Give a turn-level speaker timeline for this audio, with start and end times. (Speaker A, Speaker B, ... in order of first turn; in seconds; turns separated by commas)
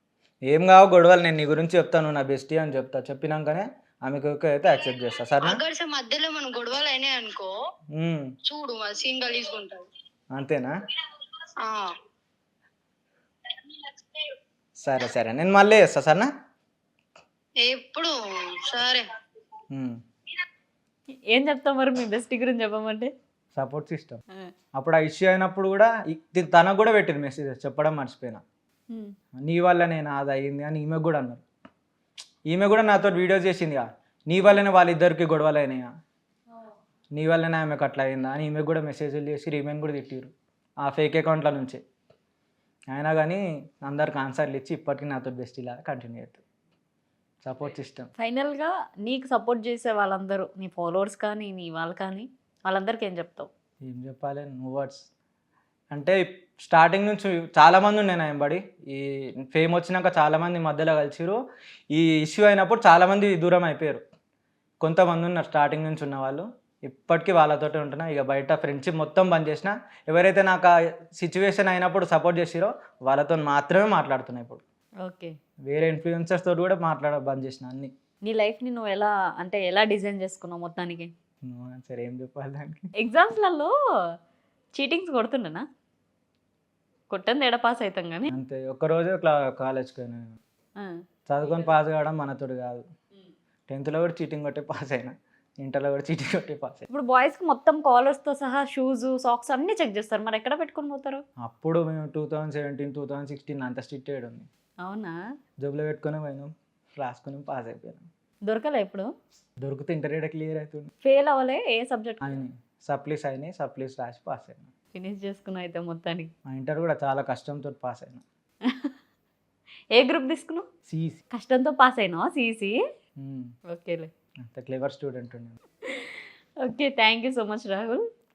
Speaker A: 0.5-5.6, Speaker B: 5.4-7.5, Speaker A: 7.9-8.3, Speaker B: 8.4-9.8, Speaker A: 10.3-10.7, Speaker B: 11.6-11.9, Speaker A: 14.8-16.3, Speaker B: 17.6-18.1, Speaker B: 18.6-19.0, Speaker A: 19.7-20.0, Speaker C: 21.3-23.1, Speaker A: 23.5-24.2, Speaker A: 24.8-28.4, Speaker C: 28.9-29.2, Speaker A: 29.4-31.4, Speaker A: 32.5-35.9, Speaker A: 37.1-41.8, Speaker A: 42.9-46.4, Speaker A: 47.4-48.1, Speaker C: 48.2-53.5, Speaker A: 53.8-55.1, Speaker A: 55.9-61.4, Speaker A: 61.9-64.0, Speaker A: 64.8-74.6, Speaker C: 75.0-75.4, Speaker A: 75.7-77.9, Speaker C: 78.2-81.1, Speaker A: 81.4-82.9, Speaker C: 83.0-84.2, Speaker C: 84.7-85.7, Speaker C: 87.1-88.3, Speaker A: 88.3-90.4, Speaker C: 90.8-91.0, Speaker A: 91.3-92.8, Speaker A: 93.7-96.9, Speaker C: 96.9-101.2, Speaker A: 101.4-104.5, Speaker C: 104.8-105.2, Speaker A: 105.6-108.0, Speaker C: 108.5-109.1, Speaker A: 109.6-110.9, Speaker C: 111.0-112.2, Speaker A: 112.2-114.7, Speaker C: 114.9-116.3, Speaker A: 116.5-118.2, Speaker C: 118.6-119.0, Speaker C: 119.9-120.7, Speaker A: 120.8-121.2, Speaker C: 121.3-122.8, Speaker A: 123.2-123.5, Speaker C: 123.7-124.1, Speaker A: 124.4-125.6, Speaker C: 125.8-128.1